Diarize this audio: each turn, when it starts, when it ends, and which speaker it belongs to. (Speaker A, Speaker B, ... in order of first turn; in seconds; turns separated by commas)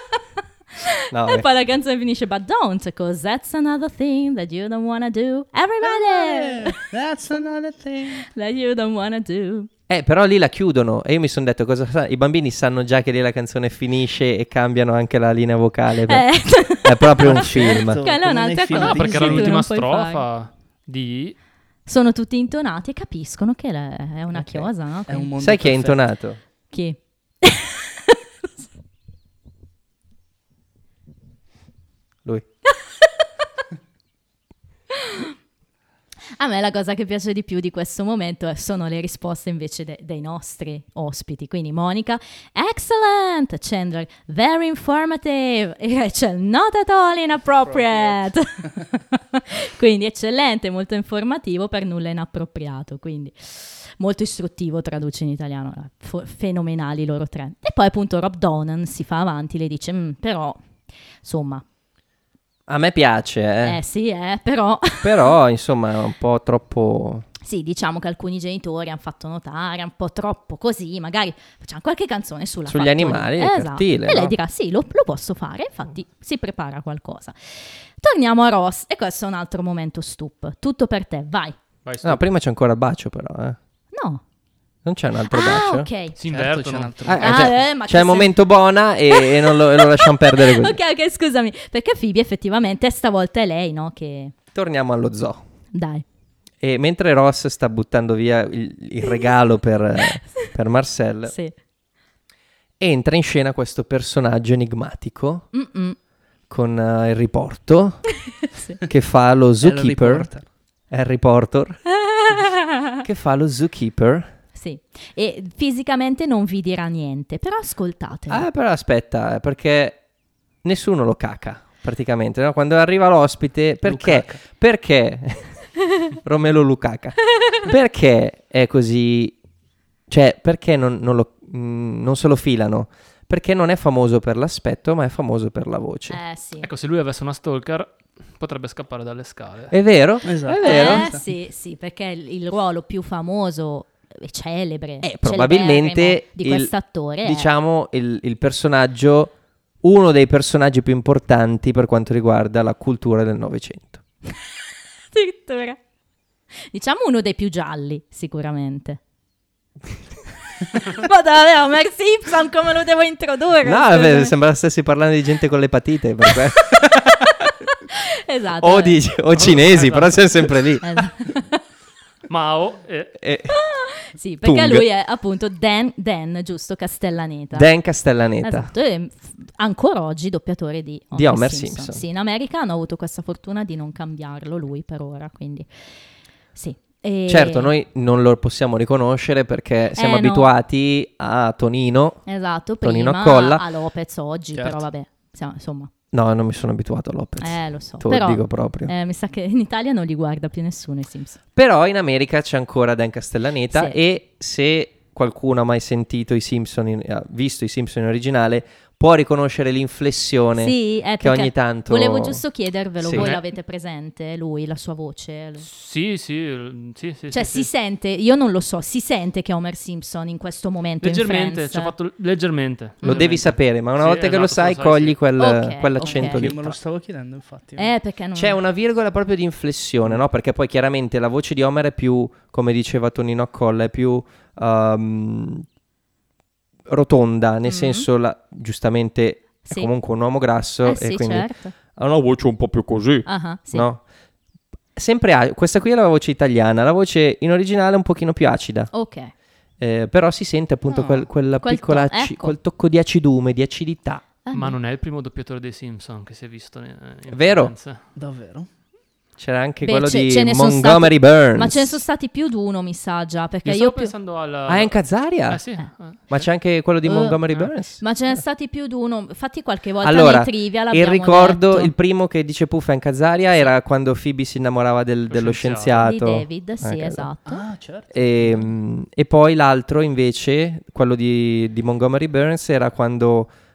Speaker A: 0.8-6.8, Speaker B: 1.1-1.4, Speaker C: 5.8-8.2, Speaker A: 8.3-9.7, Speaker B: 9.9-18.0, Speaker A: 16.1-20.2, Speaker C: 17.2-19.6, Speaker D: 18.7-21.4, Speaker A: 21.9-25.3, Speaker C: 25.1-26.0, Speaker B: 25.4-26.4, Speaker A: 26.7-28.1, Speaker A: 35.0-35.3, Speaker A: 36.4-60.6, Speaker A: 61.2-61.6, Speaker B: 62.7-63.8, Speaker A: 63.6-65.3, Speaker B: 65.0-67.2, Speaker A: 67.4-81.5, Speaker B: 72.7-74.3, Speaker D: 81.8-82.2, Speaker B: 82.0-83.6, Speaker A: 83.9-84.2, Speaker B: 84.8-85.9, Speaker A: 85.3-86.2, Speaker D: 86.2-87.1, Speaker C: 86.3-87.5, Speaker B: 87.1-90.8, Speaker A: 87.2-88.3, Speaker A: 89.1-94.3, Speaker B: 94.5-95.4, Speaker A: 95.7-96.0, Speaker B: 96.6-101.3, Speaker A: 101.3-101.5, Speaker B: 102.8-105.5, Speaker A: 105.5-106.0, Speaker B: 106.5-108.2, Speaker A: 108.5-108.8, Speaker B: 108.8-110.3, Speaker C: 109.6-110.5, Speaker B: 110.9-111.8, Speaker A: 112.0-113.0, Speaker B: 113.0-114.3, Speaker A: 114.5-118.5, Speaker B: 118.3-120.0, Speaker B: 120.6-129.4, Speaker C: 123.8-124.4, Speaker B: 130.1-136.2, Speaker A: 136.1-136.7, Speaker D: 136.6-139.7, Speaker B: 139.7-141.1, Speaker C: 140.2-141.2, Speaker A: 140.6-147.5, Speaker B: 145.0-146.7, Speaker B: 147.2-154.0, Speaker A: 155.1-155.8, Speaker A: 156.7-159.0, Speaker A: 160.6-164.3, Speaker B: 163.6-167.3, Speaker A: 167.9-169.0, Speaker B: 168.6-171.1, Speaker D: 169.3-170.6, Speaker A: 170.8-171.6, Speaker D: 172.3-173.2, Speaker B: 173.2-173.6, Speaker A: 173.5-177.7, Speaker B: 174.4-174.8, Speaker B: 177.5-178.7, Speaker A: 178.4-185.7, Speaker B: 181.1-182.0, Speaker A: 186.5-187.7, Speaker B: 187.3-192.2, Speaker A: 189.9-190.5, Speaker A: 192.2-195.9, Speaker B: 192.8-193.6, Speaker C: 194.5-194.8, Speaker B: 196.1-198.9, Speaker A: 197.4-201.4, Speaker B: 201.5-212.4, Speaker A: 210.6-215.7, Speaker B: 213.0-213.3, Speaker D: 213.1-213.4, Speaker D: 215.6-217.7, Speaker A: 217.3-221.9, Speaker D: 221.0-225.2, Speaker B: 223.0-226.8, Speaker A: 225.4-226.5, Speaker C: 226.0-227.9, Speaker A: 227.8-228.6, Speaker B: 228.3-235.7, Speaker B: 236.9-244.0, Speaker A: 237.6-238.1, Speaker A: 239.6-239.9, Speaker A: 240.8-241.7, Speaker A: 243.2-243.8, Speaker B: 244.9-248.9, Speaker A: 248.9-249.3, Speaker B: 249.8-254.2, Speaker C: 250.8-251.3, Speaker A: 251.6-252.5, Speaker A: 254.4-254.8, Speaker D: 254.5-258.0, Speaker B: 257.3-257.7, Speaker C: 258.1-258.7, Speaker B: 259.4-262.0, Speaker A: 259.8-264.1, Speaker D: 263.6-266.4, Speaker B: 264.7-265.6, Speaker B: 266.3-268.0, Speaker A: 267.0-271.9, Speaker B: 270.0-277.3, Speaker D: 275.3-276.1, Speaker A: 276.0-277.6, Speaker C: 277.4-278.7, Speaker B: 278.1-283.5